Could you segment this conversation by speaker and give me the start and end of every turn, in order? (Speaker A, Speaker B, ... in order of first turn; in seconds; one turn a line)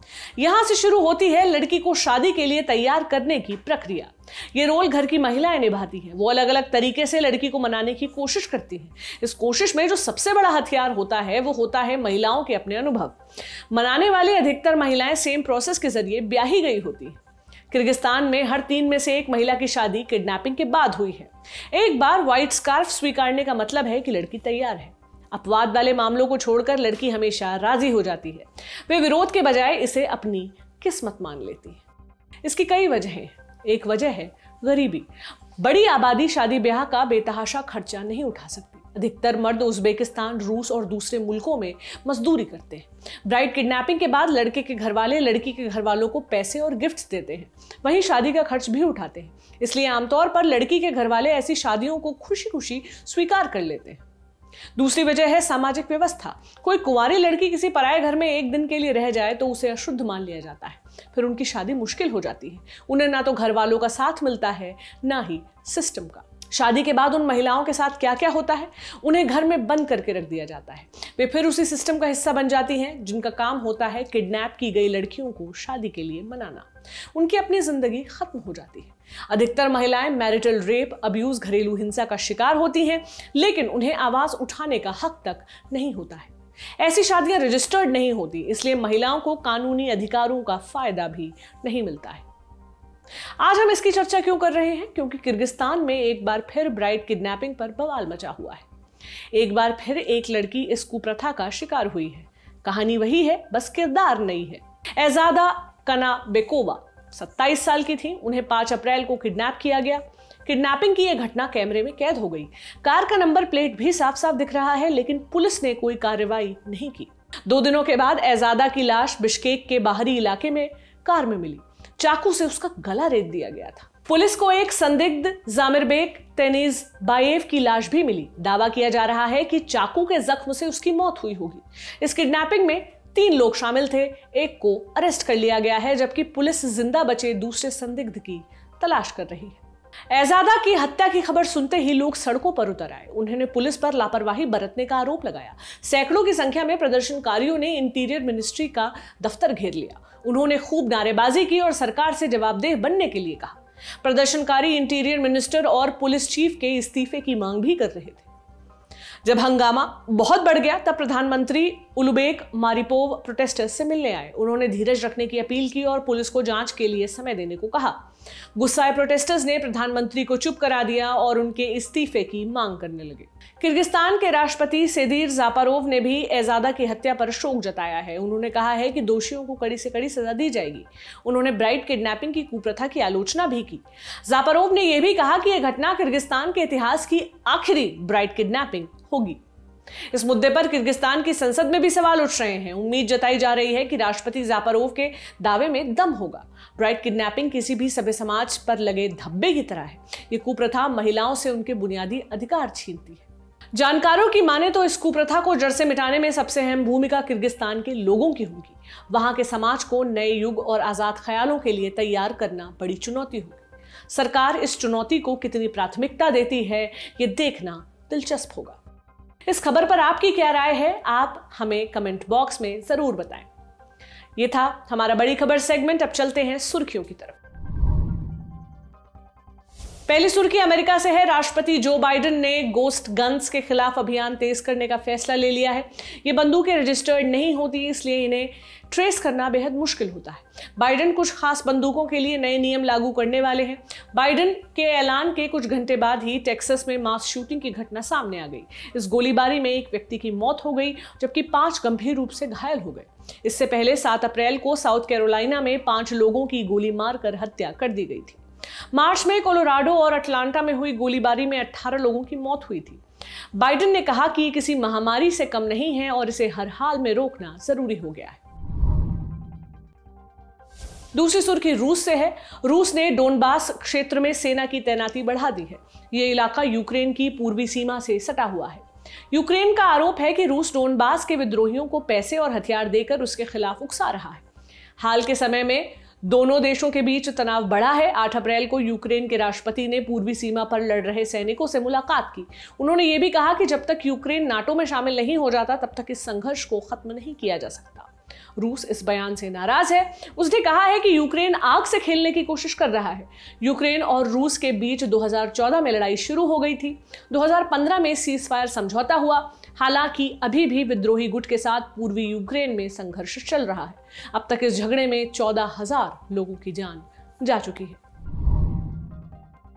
Speaker A: 0.4-17.2
Speaker A: 17.7-31.8
Speaker A: 32.4-54.0
Speaker A: 54.8-92.2
Speaker A: 93.4-98.7
Speaker A: 99.3-158.3
Speaker A: 159.2-189.4
Speaker A: 190.1-218.8
Speaker A: 219.5-223.5
Speaker A: 224.4-227.4
Speaker A: 230.1-258.4
Speaker A: 258.9-263.0
Speaker A: 263.5-268.4
Speaker A: 271.1-284.4
Speaker A: 285.0-318.0